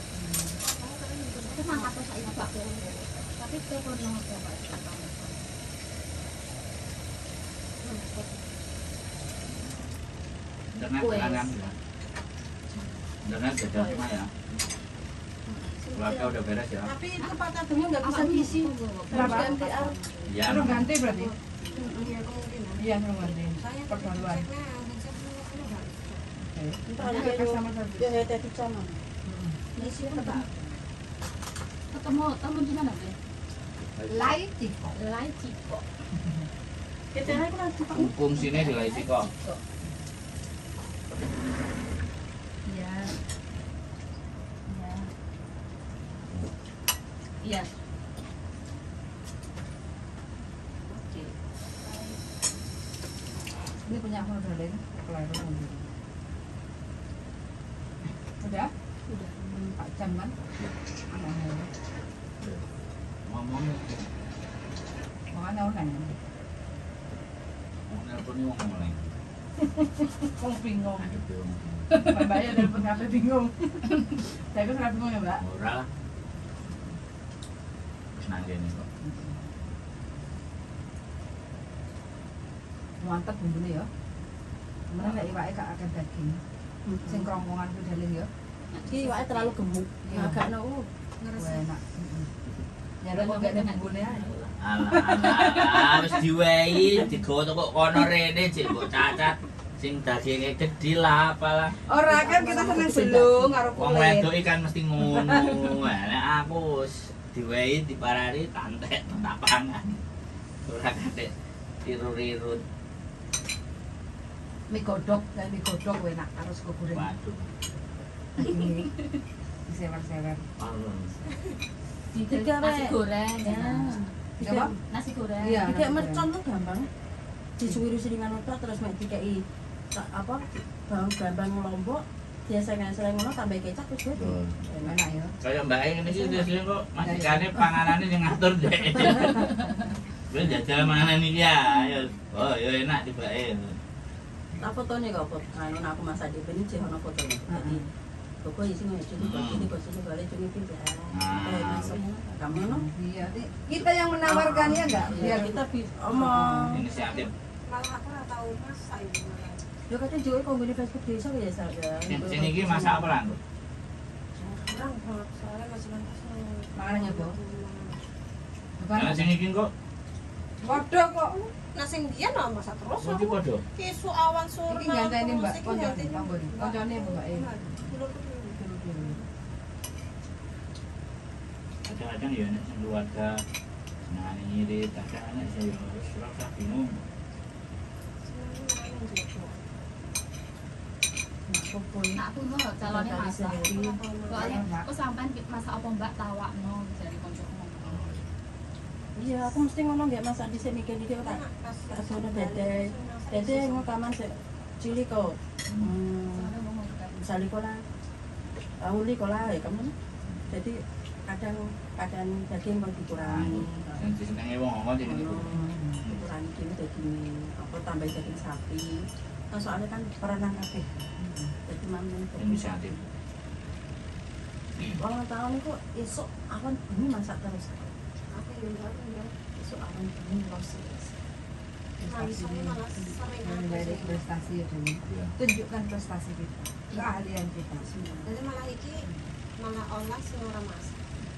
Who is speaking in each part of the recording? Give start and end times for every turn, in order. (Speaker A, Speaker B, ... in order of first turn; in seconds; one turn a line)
Speaker A: 0.1-0.5
Speaker B: 0.6-2.8
Speaker C: 1.5-5.5
Speaker B: 7.8-8.6
Speaker D: 10.7-11.7
Speaker C: 11.0-11.5
Speaker D: 13.2-14.3
Speaker E: 13.7-14.0
Speaker C: 15.5-15.8
Speaker D: 15.9-16.9
Speaker E: 16.8-20.0
Speaker C: 18.0-20.7
Speaker A: 19.1-19.5
Speaker D: 20.2-20.9
Speaker A: 20.4-21.3
Speaker B: 20.9-26.2
Speaker C: 21.6-22.1
Speaker A: 22.8-24.4
Speaker A: 26.4-28.2
Speaker E: 26.8-29.0
Speaker A: 29.2-29.6
Speaker C: 29.8-30.5
Speaker E: 29.8-30.4
Speaker C: 31.9-33.2
Speaker D: 34.0-34.4
Speaker A: 34.1-34.9
Speaker C: 34.9-35.8
Speaker E: 37.1-38.1
Speaker D: 37.2-39.3
Speaker C: 38.3-39.6
Speaker C: 42.6-43.1
Speaker C: 44.7-45.1
Speaker C: 47.4-47.7
Speaker C: 50.9-51.4
Speaker C: 51.9-52.1
Speaker A: 53.8-55.9
Speaker A: 58.4-58.7
Speaker C: 59.1-59.6
Speaker A: 59.8-60.3
Speaker A: 61.1-61.7
Speaker D: 63.3-64.0
Speaker A: 65.3-66.1
Speaker D: 67.9-69.1
Speaker A: 69.7-71.2
Speaker D: 71.0-72.2
Speaker A: 71.9-75.4
Speaker D: 75.4-75.9
Speaker D: 78.1-78.9
Speaker A: 79.0-79.3
Speaker A: 83.0-83.9
Speaker A: 84.9-86.4
Speaker E: 86.8-87.3
Speaker A: 87.0-88.3
Speaker C: 88.7-89.6
Speaker E: 88.9-90.9
Speaker A: 90.0-90.5
Speaker A: 91.3-92.3
Speaker A: 93.0-94.3
Speaker C: 93.1-94.6
Speaker D: 94.6-101.8
Speaker A: 94.8-96.2
Speaker A: 101.9-104.3
Speaker E: 102.1-103.6
Speaker D: 103.7-110.0
Speaker A: 105.1-105.5
Speaker D: 110.6-111.3
Speaker D: 111.8-112.6
Speaker A: 114.7-117.1
Speaker D: 116.9-117.5
Speaker A: 118.3-119.0
Speaker A: 119.7-120.4
Speaker D: 120.6-121.1
Speaker C: 122.1-124.1
Speaker E: 122.2-124.7
Speaker A: 124.4-124.8
Speaker C: 124.9-125.7
Speaker A: 125.4-126.3
Speaker E: 125.6-126.9
Speaker E: 127.6-135.0
Speaker D: 134.1-134.6
Speaker A: 134.8-135.3
Speaker D: 135.4-139.7
Speaker A: 137.0-137.6
Speaker A: 139.2-139.7
Speaker D: 140.3-143.8
Speaker E: 144.6-147.8
Speaker A: 147.5-147.8
Speaker E: 148.4-152.8
Speaker D: 149.2-149.7
Speaker D: 151.1-152.0
Speaker A: 152.5-156.8
Speaker E: 154.2-156.8
Speaker D: 156.7-157.3
Speaker B: 156.8-159.6
Speaker E: 159.9-163.1
Speaker D: 162.1-163.4
Speaker B: 164.4-168.0
Speaker A: 166.8-167.3
Speaker A: 168.8-169.3
Speaker D: 168.9-169.7
Speaker A: 170.6-171.3
Speaker B: 170.6-179.2
Speaker D: 173.0-173.6
Speaker A: 174.7-177.5
Speaker A: 178.5-179.2
Speaker D: 181.8-183.4
Speaker D: 184.1-187.0
Speaker B: 188.2-189.6
Speaker E: 191.5-192.2
Speaker C: 192.1-193.7
Speaker E: 192.8-194.0
Speaker B: 193.6-194.6
Speaker C: 194.3-198.0
Speaker A: 194.3-194.8
Speaker D: 197.8-198.3
Speaker E: 199.1-206.5
Speaker B: 201.2-203.9
Speaker D: 205.7-205.9
Speaker C: 206.3-207.2
Speaker E: 207.1-207.8
Speaker E: 208.8-209.9
Speaker E: 210.5-214.0
Speaker D: 213.2-216.2
Speaker E: 215.0-220.3
Speaker A: 215.7-216.0
Speaker A: 220.2-221.5
Speaker E: 221.6-223.0
Speaker D: 222.4-223.0
Speaker E: 225.0-227.9
Speaker B: 228.3-229.3
Speaker E: 229.6-231.1
Speaker A: 232.0-232.8
Speaker B: 232.0-234.2
Speaker A: 233.4-237.9
Speaker D: 235.1-235.3
Speaker E: 237.9-238.2
Speaker B: 238.2-239.0
Speaker B: 239.6-240.9